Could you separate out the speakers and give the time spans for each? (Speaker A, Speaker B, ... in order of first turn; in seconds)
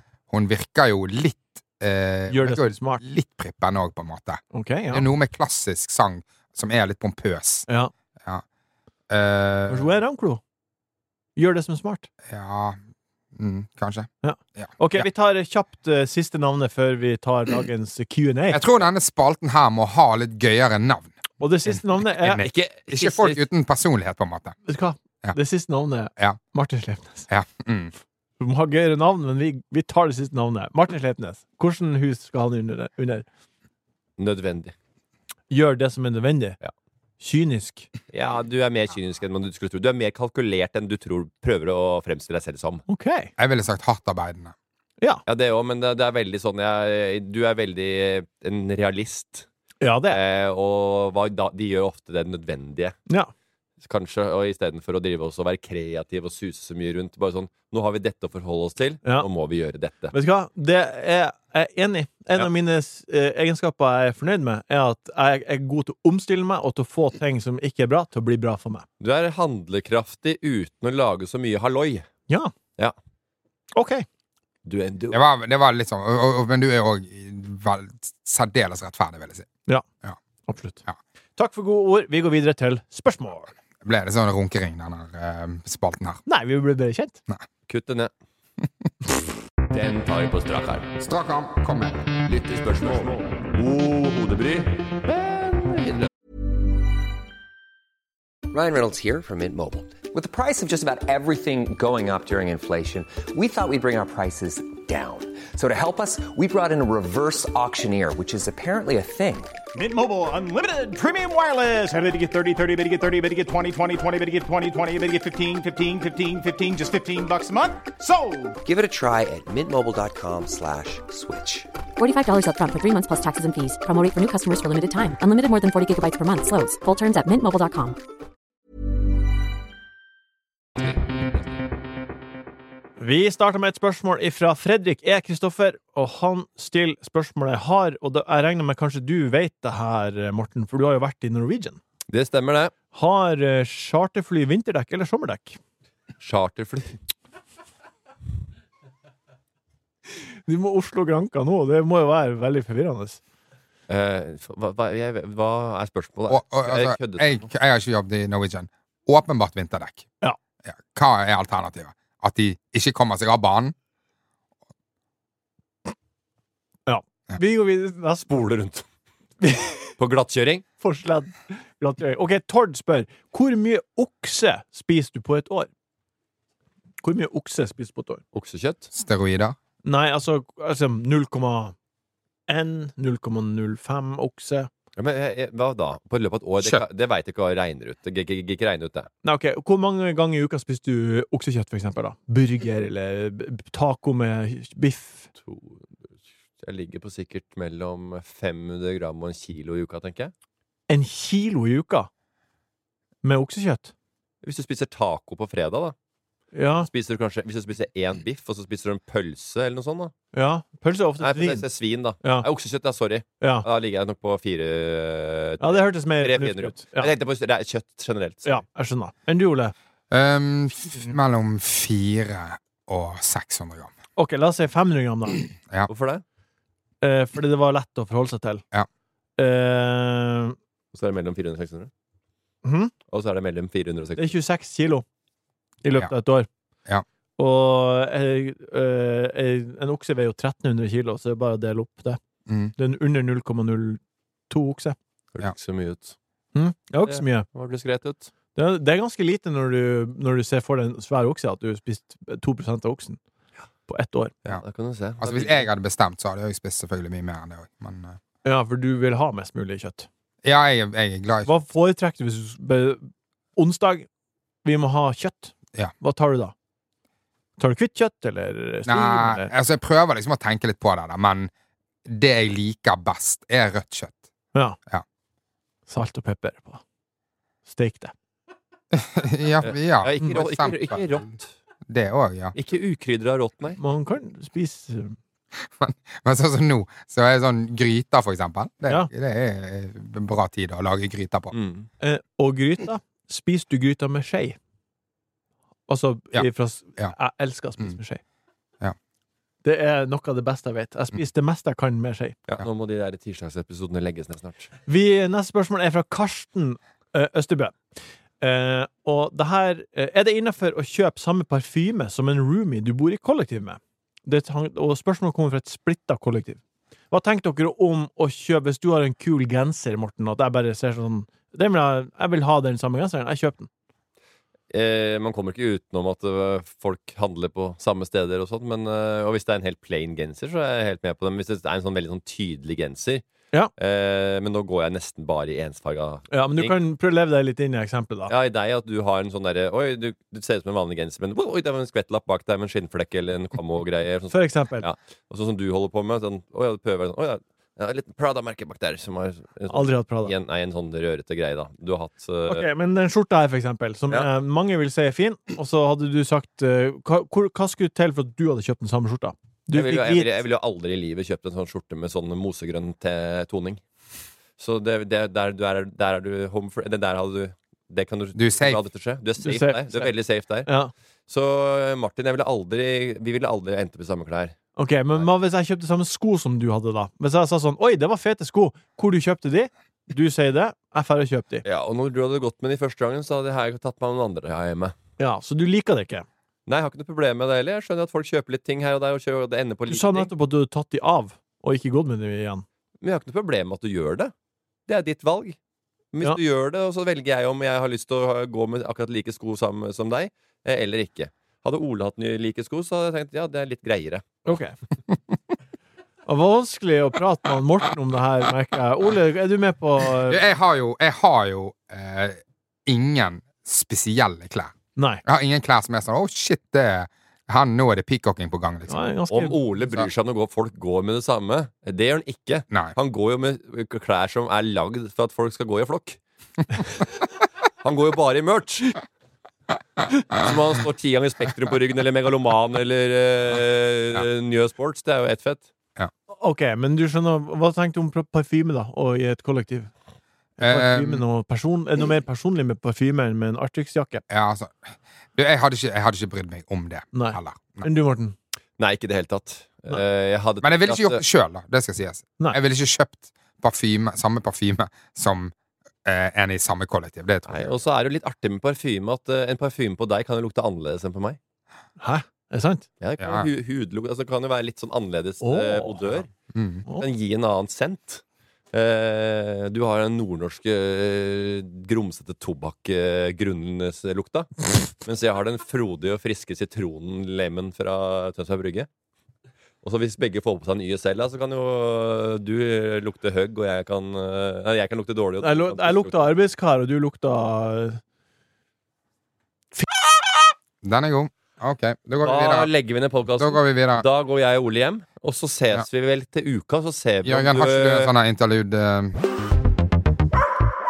Speaker A: 0.3-4.4, 4.9-7.7, 9.1-9.9, 12.3-12.8, 13.3-15.1, 18.5-21.1, 22.2-24.6, 27.3-27.9, 43.4-44.5, 75.1-79.5, 83.8-86.2, 91.0-92.1, 156.3-160.1, 160.6-163.7, 178.9-179.6, 220.1-223.9, 242.5-242.7, 255.2-258.2, 260.4-261.5, 268.9-271.5, 272.1-274.2, 278.9-281.2, 281.9-282.5, 285.7-291.5, 368.3-368.8, 410.2-414.7, 415.2-419.1, 440.6-441.2, 444.3-447.9, 450.6-455.5, 456.0-457.8, 463.2-463.5, 466.5-466.8, 490.8-492.7, 493.4-494.1, 497.2-499.2
Speaker B: 2.3-3.0, 4.5-5.1, 9.7-10.4, 11.3-12.1, 14.2-18.6, 21.4-22.4, 24.7-27.3, 28.4-33.2, 35.5-36.6, 37.2-37.9, 42.9-43.3, 49.8-50.2, 60.1-68.8, 73.7-74.0, 80.5-80.8, 81.4-83.5, 86.2-87.2, 133.0-141.8, 142.9-145.6, 150.2-153.2, 166.9-168.3, 169.4-169.9, 170.8-175.7, 177.0-178.2, 179.8-181.7, 182.5-184.7, 189.2-195.3, 200.9-202.1, 203.2-203.9, 206.5-206.9, 210.3-211.6, 213.4-213.7, 215.6-217.1, 218.4-219.7, 224.2-225.4, 227.0-228.6, 229.4-230.6, 232.6-232.9, 234.2-235.0, 235.8-236.5, 237.4-242.2, 242.8-245.0, 246.5-247.5, 248.5-253.2, 253.9-254.3, 258.4-260.1, 261.4-263.0, 263.6-264.1, 264.6-266.5, 267.6-269.5, 275.9-276.8, 277.7-278.1, 283.8-285.1, 292.0-294.6, 295.9-298.2, 299.6-302.4, 304.9-307.8, 308.4-316.6, 317.1-323.7, 336.3-338.3, 344.3-344.9, 349.7-350.3, 352.5-360.3, 369.4-370.1, 370.6-370.9, 374.8-381.6, 385.2-386.2, 389.9-392.6, 404.4-404.7, 406.3-410.4, 414.9-415.2, 418.9-419.6, 436.3-439.9, 440.6-444.2, 447.1-448.3, 462.0-462.9, 465.4-466.0, 485.4-488.0
Speaker C: 22.3-23.4, 34.2-34.7, 38.1-42.8, 45.3-49.5, 50.1-53.0, 53.8-60.1, 69.0-72.1, 74.7-75.2, 87.7-88.1, 89.7-90.9, 92.2-96.1, 142.1-142.7, 146.2-147.0, 153.9-157.5, 168.3-168.8, 170.0-170.6, 178.3-178.9, 185.0-189.1, 195.4-195.9, 196.6-200.3, 204.4-205.9, 206.8-210.1, 211.2-218.6, 225.9-226.2, 230.9-231.9, 233.1-234.3, 245.3-246.2, 247.1-248.3, 254.5-255.7, 279.6-281.5, 282.5-283.8, 291.5-291.9, 302.5-304.7, 324.7-333.2, 333.8-336.8, 338.3-352.6, 359.7-363.8, 364.6-370.7, 371.3-374.6, 381.6-384.9, 386.7-390.3, 393.0-394.3, 394.9-395.6, 396.1-404.2, 419.3-426.2, 426.8-427.0, 427.8-429.0, 430.3-435.6, 448.8-451.2, 457.5-461.4, 463.0-466.3, 467.0-468.2, 468.7-478.9, 479.8-486.3, 492.2-498.1
Speaker D: 98.5-109.5, 118.6-121.7
Speaker E: 109.7-118.6
Speaker F: 122.0-128.0